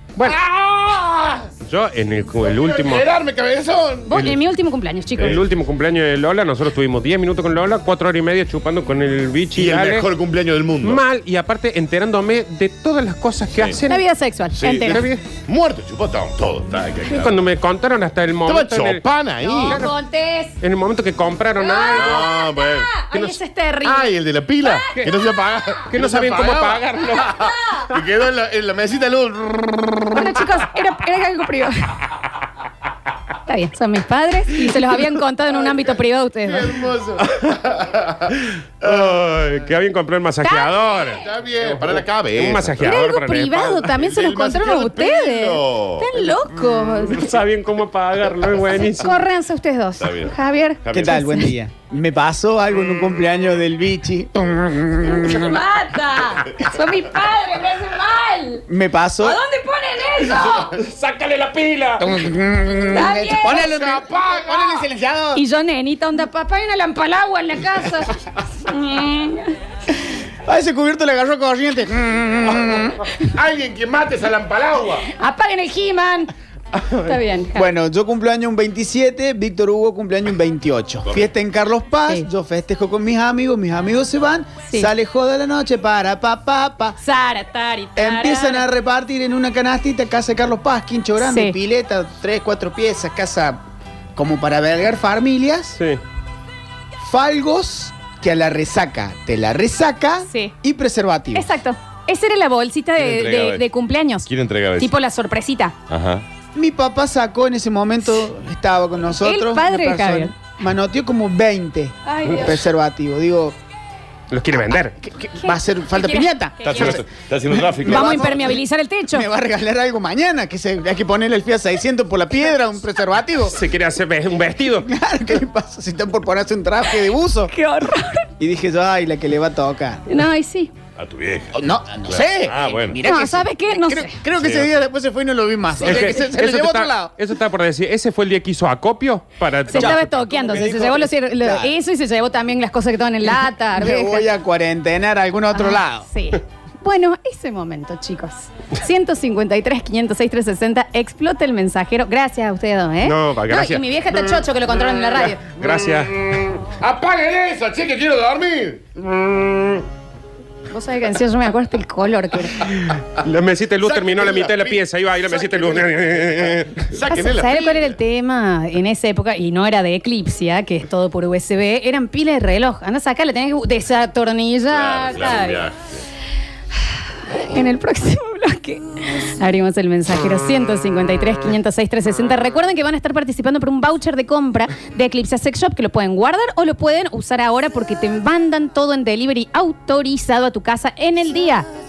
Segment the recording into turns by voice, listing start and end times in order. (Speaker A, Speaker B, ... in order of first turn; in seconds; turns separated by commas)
Speaker A: 0.2-1.5, Speaker B: 1.6-3.0, Speaker A: 2.4-4.3, Speaker C: 4.1-5.4, Speaker B: 5.2-10.1, Speaker A: 5.2-5.4, Speaker A: 9.6-11.0, Speaker B: 10.8-14.0, Speaker A: 13.5-13.8, Speaker C: 13.9-15.0, Speaker A: 14.5-17.4, Speaker B: 14.8-15.2, Speaker B: 17.1-19.0, Speaker A: 18.4-19.8, Speaker C: 19.4-20.6, Speaker B: 19.6-19.9, Speaker B: 20.6-22.3, Speaker C: 21.6-24.9, Speaker A: 21.9-22.9, Speaker A: 23.8-30.4, Speaker B: 25.9-27.3, Speaker C: 27.3-27.9, Speaker C: 30.1-32.0, Speaker C: 33.5-36.7, Speaker A: 36.5-39.6, Speaker B: 38.9-43.9, Speaker C: 40.4-41.2, Speaker A: 41.2-42.8, Speaker C: 42.8-47.3, Speaker A: 43.8-46.3, Speaker B: 47.1-49.1, Speaker C: 48.9-51.5, Speaker A: 50.0-51.2, Speaker D: 50.9-55.5, Speaker C: 55.0-58.6, Speaker D: 58.7-59.4, Speaker C: 59.2-60.8, Speaker B: 60.5-62.1, Speaker D: 62.0-65.4, Speaker C: 62.9-63.7, Speaker A: 63.5-64.9, Speaker C: 65.3-69.5, Speaker D: 70.5-73.0, Speaker A: 73.1-75.1, Speaker C: 75.1-76.3, Speaker C: 76.9-77.7, Speaker D: 77.5-87.0, Speaker A: 81.0-81.3, Speaker C: 84.6-84.9, Speaker C: 87.0-88.6, Speaker D: 88.0-93.6, Speaker C: 91.2-91.6, Speaker D: 94.2-95.8, Speaker D: 97.0-101.5, Speaker C: 100.3-100.5, Speaker C: 101.3-105.8, Speaker A: 103.0-103.7, Speaker A: 104.2-104.9, Speaker A: 105.9-106.2, Speaker D: 106.5-113.5, Speaker C: 109.2-110.3, Speaker C: 112.0-112.6, Speaker B: 114.3-114.9, Speaker D: 115.0-117.0, Speaker C: 115.4-117.0, Speaker A: 116.6-118.5, Speaker D: 117.5-118.6, Speaker C: 117.8-119.2, Speaker D: 119.1-123.5, Speaker B: 123.5-124.9, Speaker D: 124.8-127.5, Speaker C: 127.5-128.3, Speaker D: 128.4-130.2, Speaker C: 130.1-130.7, Speaker A: 130.9-133.0, Speaker D: 131.5-137.1, Speaker C: 133.0-134.2, Speaker A: 134.4-134.8, Speaker B: 135.8-140.5, Speaker C: 139.7-144.2, Speaker D: 139.8-141.7, Speaker D: 143.7-146.1, Speaker C: 145.5-155.4, Speaker B: 153.0-153.8, Speaker B: 155.4-156.2, Speaker A: 155.6-159.8, Speaker C: 160.7-162.7, Speaker B: 162.9-166.9, Speaker A: 163.8-168.0, Speaker C: 167.1-175.7, Speaker A: 174.7-176.0, Speaker C: 177.3-191.7